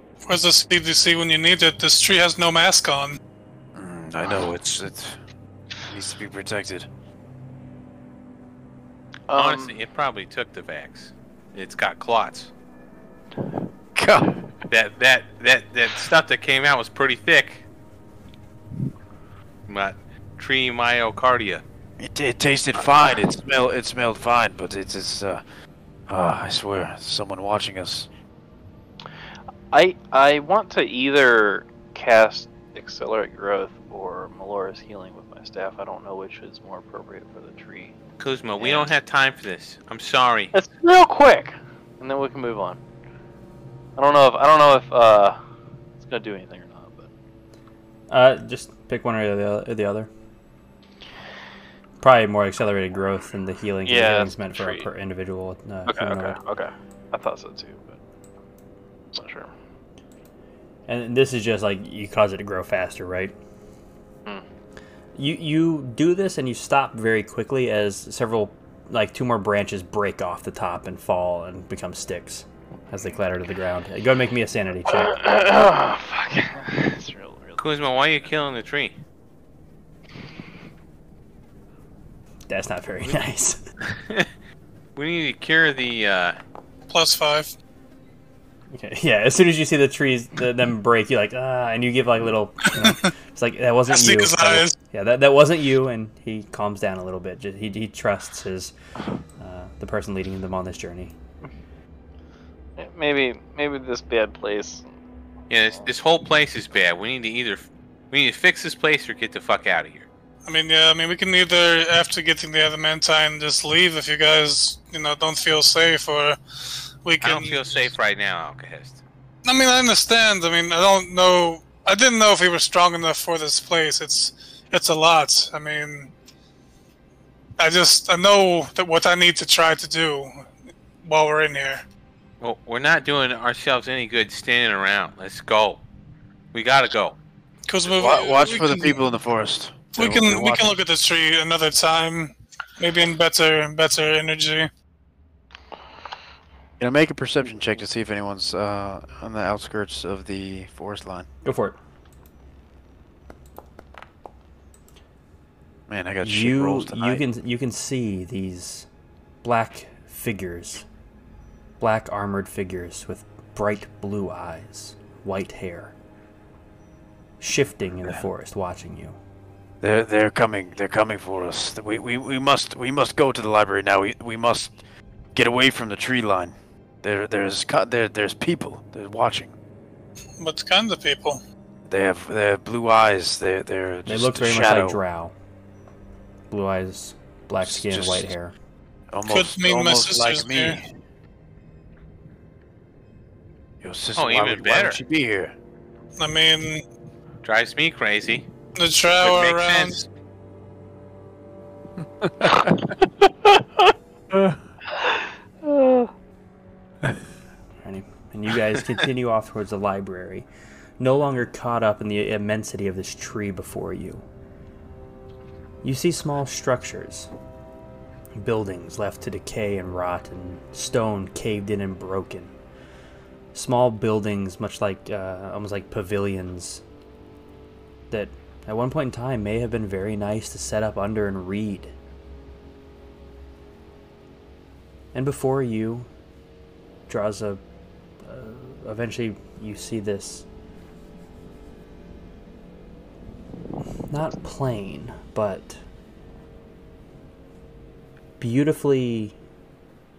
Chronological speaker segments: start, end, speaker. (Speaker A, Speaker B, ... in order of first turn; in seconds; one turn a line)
Speaker A: 0.3-3.2
Speaker B: 3.8-5.2
Speaker B: 5.9-6.9
Speaker C: 9.3-9.8
Speaker D: 9.3-12.5
Speaker B: 13.9-14.4
Speaker D: 14.7-17.6
Speaker D: 19.7-21.6
Speaker B: 22.0-25.4
Speaker B: 26.1-28.1
Speaker C: 29.7-37.9
Speaker D: 38.2-40.5
Speaker C: 38.6-38.9
Speaker C: 40.5-42.8
Speaker C: 44.0-45.4
Speaker C: 46.0-47.1
Speaker E: 48.1-50.1
Speaker E: 52.0-56.4
Speaker C: 53.9-54.9
Speaker C: 55.9-58.0
Speaker C: 59.1-59.5
Speaker E: 60.9-63.3
Speaker E: 65.1-75.2
Speaker C: 75.0-77.6
Speaker D: 77.6-79.0
Speaker E: 82.5-83.6
Speaker D: 83.9-84.3
Speaker D: 85.0-86.4
Speaker A: 86.9-87.5
Speaker E: 88.7-98.7
Speaker A: 92.8-93.1
Speaker A: 93.9-94.8
Speaker E: 99.4-101.1
Speaker C: 102.8-104.9
Speaker D: 105.5-110.1
Speaker A: 110.5-116.4
Speaker A: 117.0-117.9
Speaker D: 117.2-119.0
Speaker A: 119.4-126.1
Speaker A: 127.6-130.4
Speaker A: 131.0-131.8
Speaker D: 132.4-135.8
Speaker D: 136.5-137.2
Speaker A: 137.7-139.0
Speaker B: 137.9-140.7
Speaker A: 139.9-144.7
Speaker B: 146.8-151.3
Speaker E: 151.4-151.8
Speaker B: 155.9-157.2
Speaker E: 156.2-158.9
Speaker E: 159.4-160.8
Speaker E: 161.8-165.9
Speaker E: 167.4-169.2
Speaker B: 169.8-174.8
Speaker B: 175.3-179.5
Speaker A: 180.4-181.4
Speaker B: 181.9-185.0
Speaker E: 184.1-185.3
Speaker E: 186.5-188.5
Speaker B: 187.6-188.3
Speaker B: 189.1-190.8
Speaker A: 189.3-190.8
Speaker B: 193.8-195.5
Speaker D: 194.1-195.0
Speaker A: 196.2-196.8
Speaker D: 197.4-198.5
Speaker A: 198.8-200.0
Speaker D: 199.2-200.1
Speaker B: 202.2-202.9
Speaker B: 204.3-204.6
Speaker C: 204.9-206.1
Speaker E: 207.8-210.5
Speaker E: 211.0-214.2
Speaker E: 215.8-217.3
Speaker E: 218.3-222.5
Speaker E: 223.5-226.8
Speaker E: 228.1-231.9
Speaker E: 235.1-236.1
Speaker E: 237.1-237.6
Speaker E: 238.2-240.4
Speaker E: 244.1-245.8
Speaker E: 248.4-249.3